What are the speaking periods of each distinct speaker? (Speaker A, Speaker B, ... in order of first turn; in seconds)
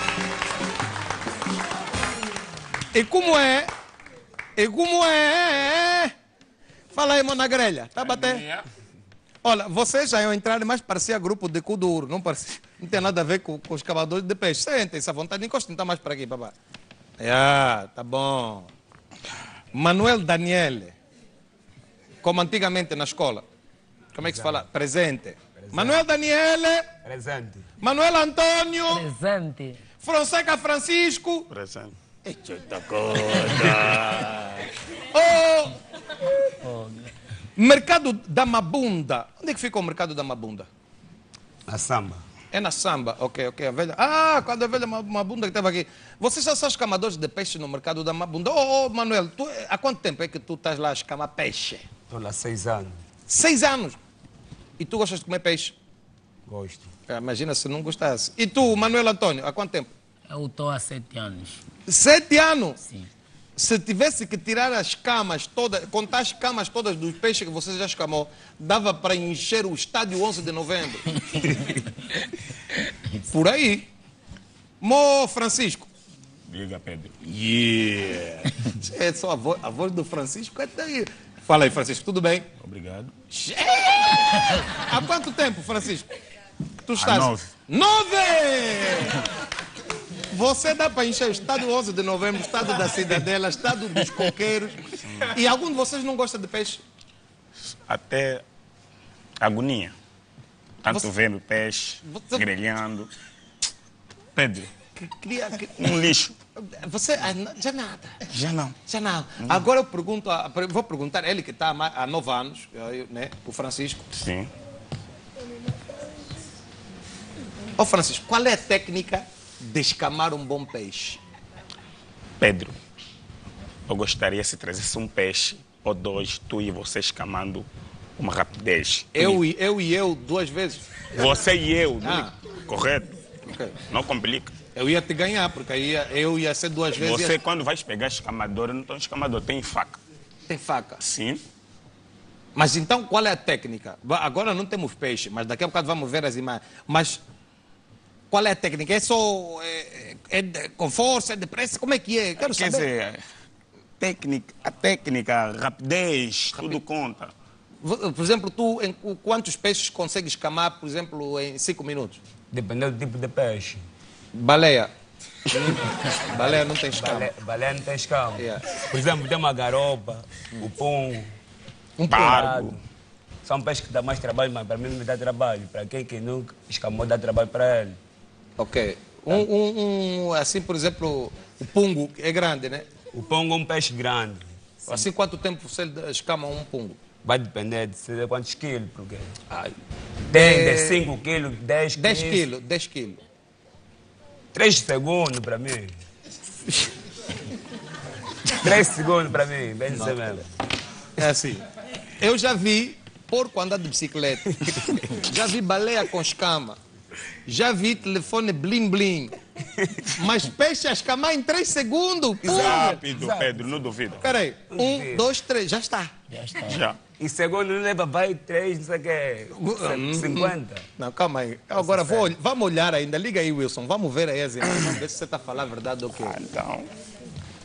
Speaker A: 2.9-3.7, 4.5-6.1, 6.9-8.4, 9.4-16.5, 17.2-18.7, 19.7-20.9, 22.2-23.4, 24.1-26.9, 27.8-29.0, 30.0-31.5, 35.0-35.7, 37.5-40.7, 42.5-51.8, 53.3-54.0, 54.8-55.7, 57.1-59.9, 61.9-62.8, 63.5-71.0, 73.2-73.8, 74.8-75.9, 77.2-82.5, 83.3-86.1, 86.8-89.2, 90.3-96.8, 102.0-102.5, 105.0-106.0, 106.6-108.2, 108.9-114.0, 117.8-121.2, 129.1-130.8, 132.0-132.3, 133.4-133.7, 134.7-137.4, 140.5-141.0, 142.5-147.2, 148.3-152.9, 157.8-162.2, 164.3-164.9, 165.5-167.3, 168.4-168.6, 172.0-172.5, 178.6-182.9, 184.9-187.0, 190.3-191.0, 191.9-193.2, 199.9-200.4, 201.2-201.6, 202.2-204.5, 205.1-206.8, 207.4-209.3, 210.2-213.0, 214.2-216.1, 219.5-226.3
Speaker B: 8.0-8.7, 31.5-34.6, 76.5-77.1, 82.6-83.1, 87.0-87.5, 97.9-98.4, 99.4-99.9, 100.8-103.1, 104.3-104.7, 105.8-106.3, 108.3-108.8, 114.1-114.5, 122.4-122.8, 123.9-127.7, 128.2-129.4, 131.1-133.2, 133.9-134.5, 137.0-140.0, 141.0-141.4, 152.4-153.2, 154.0-157.3, 172.1-172.8, 212.5-214.2, 216.6-217.0, 226.2-226.9
Speaker C: 25.6-26.1, 27.0-27.6, 41.7-42.2, 52.1-53.0, 56.5-56.9, 162.5-163.8, 166.3-171.3, 172.3-172.8, 173.4-178.0, 183.1-185.1, 187.2-189.7, 190.3-192.4, 194.5-195.9, 198.5-200.4, 209.6-210.1, 212.4-213.8, 214.7-215.2, 217.2-220.8, 221.8-222.3
Speaker D: 28.9-29.8, 36.6-37.1, 60.3-61.6, 62.8-63.1, 216.3-216.8